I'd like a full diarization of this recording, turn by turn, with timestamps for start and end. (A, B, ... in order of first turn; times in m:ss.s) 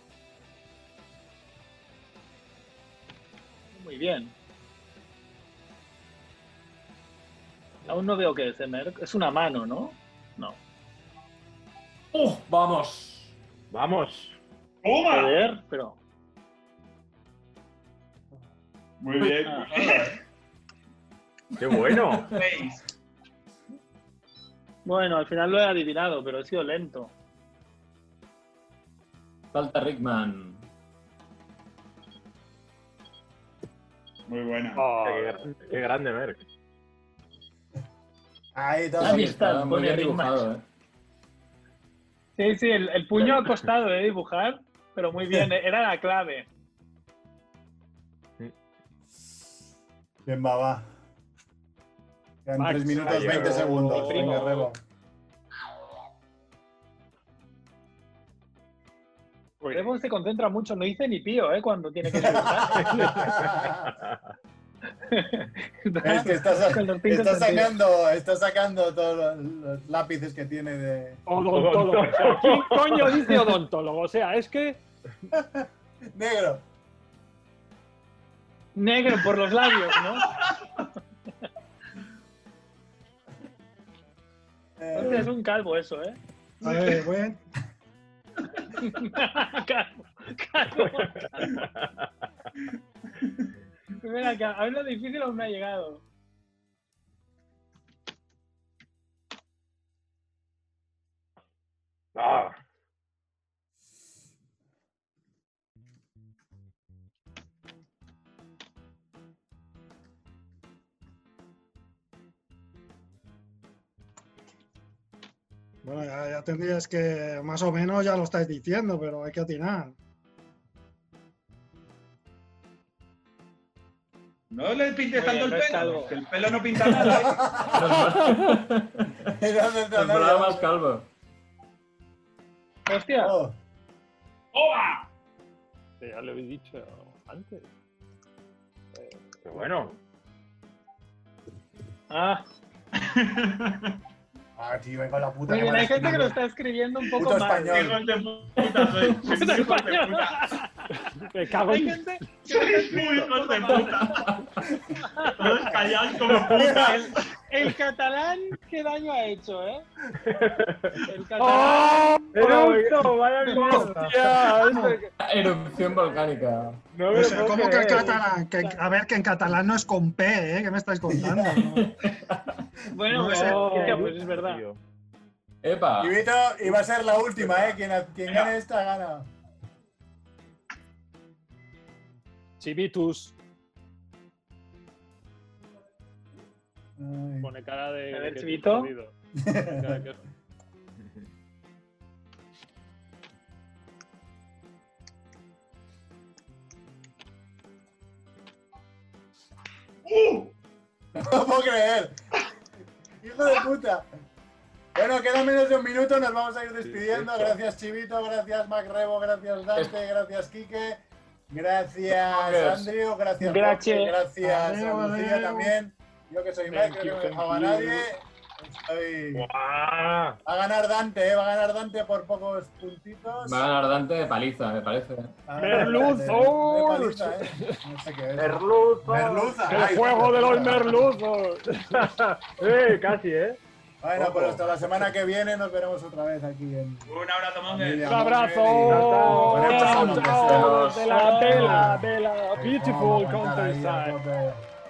0:03.7-0:04.3 A
0:07.9-0:10.6 A
0:12.1-0:13.3 B
0:13.7-0:14.4 C
0:14.8-0:15.4 D
0:15.1-0:16.0 A
0:19.0-0:20.1 D
0:19.4-0:20.1 A
0:21.6-0:22.3 C
0:21.9-0:22.4 B
0:22.3-0:22.8 D
0:24.8-0:27.1 A
0:29.5-0:30.6 B
0:34.3-0:34.9 D
0:34.8-0:35.5 E
0:35.0-0:36.4 C
0:38.5-0:39.4 F
0:39.0-0:40.6 B
0:39.0-0:40.5 A
0:42.4-0:46.5 A
0:50.2-0:50.9 F
0:52.4-0:54.8 F
0:52.6-0:54.7 E
0:53.0-0:54.7 A
0:53.0-0:53.8 C
0:59.6-0:59.9 E
0:59.7-1:03.2 A
1:02.1-1:03.9 F
1:03.0-1:03.3 E
1:03.2-1:04.2 C
1:05.1-1:07.7 A
1:06.0-1:11.2 F
1:11.3-1:14.8 E
1:11.5-1:13.5 C
1:15.3-1:16.6 F
1:18.8-1:20.3 A
1:24.8-1:25.3 F
1:24.9-1:27.0 A
1:26.6-1:27.4 G
1:28.7-1:31.6 A
1:34.0-1:36.0 A
1:42.1-1:42.6 C
1:55.8-1:59.9 G
2:04.5-2:07.4 D
2:05.1-2:06.2 A
2:06.9-2:07.2 A
2:07.0-2:07.8 F
2:07.7-2:09.1 B
2:07.8-2:08.5 E
2:09.2-2:10.7 F
2:09.9-2:11.1 B
2:12.9-2:13.4 A
2:13.2-2:13.6 F
2:14.5-2:15.0 D
2:16.0-2:17.7 E
2:18.9-2:19.8 E
2:19.4-2:19.9 C
2:22.1-2:22.4 A
2:23.0-2:23.9 D
2:24.6-2:26.4 F
2:25.5-2:28.0 A
2:27.2-2:28.0 F
2:27.7-2:30.4 D
2:29.2-2:31.0 A
2:31.2-2:33.3 E
2:31.6-2:34.4 A
2:32.5-2:34.2 D
2:33.7-2:34.5 B
2:35.0-2:35.8 A
2:35.4-2:37.1 D
2:35.7-2:37.0 F
2:36.3-2:39.8 A
2:40.3-2:40.9 C
2:41.0-2:42.7 A
2:41.4-2:42.8 E
2:42.3-2:44.9 C
2:43.4-2:43.9 A
2:43.6-2:45.1 E
2:44.6-2:45.0 G
2:45.2-2:46.8 B
2:46.9-2:48.3 C
2:47.1-2:51.9 G
2:47.2-2:48.8 A
2:51.1-2:51.8 F
2:51.8-2:52.6 B
2:52.9-2:54.6 A
2:53.1-2:54.0 G
2:53.2-2:54.8 C
2:55.6-2:56.1 B
2:56.0-2:59.3 F
2:58.3-2:58.5 D
3:02.6-3:03.3 E
3:07.0-3:07.5 F
3:07.4-3:10.2 E
3:08.1-3:08.9 A
3:09.4-3:10.0 F
3:20.0-3:20.5 D
3:21.1-3:22.2 F
3:23.2-3:24.1 F
3:24.9-3:39.5 F
3:26.8-3:27.6 C
3:32.1-3:32.9 B
3:33.4-3:34.2 A
3:34.4-3:35.7 G
3:36.7-3:38.0 E
3:39.3-3:40.4 C
3:40.4-3:43.6 F
3:43.4-3:45.4 B
3:45.5-3:51.2 F
3:45.6-3:47.8 E
3:45.7-3:46.1 C
3:48.4-3:50.2 C
3:49.6-3:52.1 E
3:51.9-3:53.6 C
3:54.0-3:57.2 F
3:54.2-3:55.1 C
3:57.1-3:58.1 D
3:57.7-4:04.6 F
3:58.0-4:04.2 E
3:58.8-3:59.8 C
3:59.7-4:01.2 B
4:00.8-4:01.9 A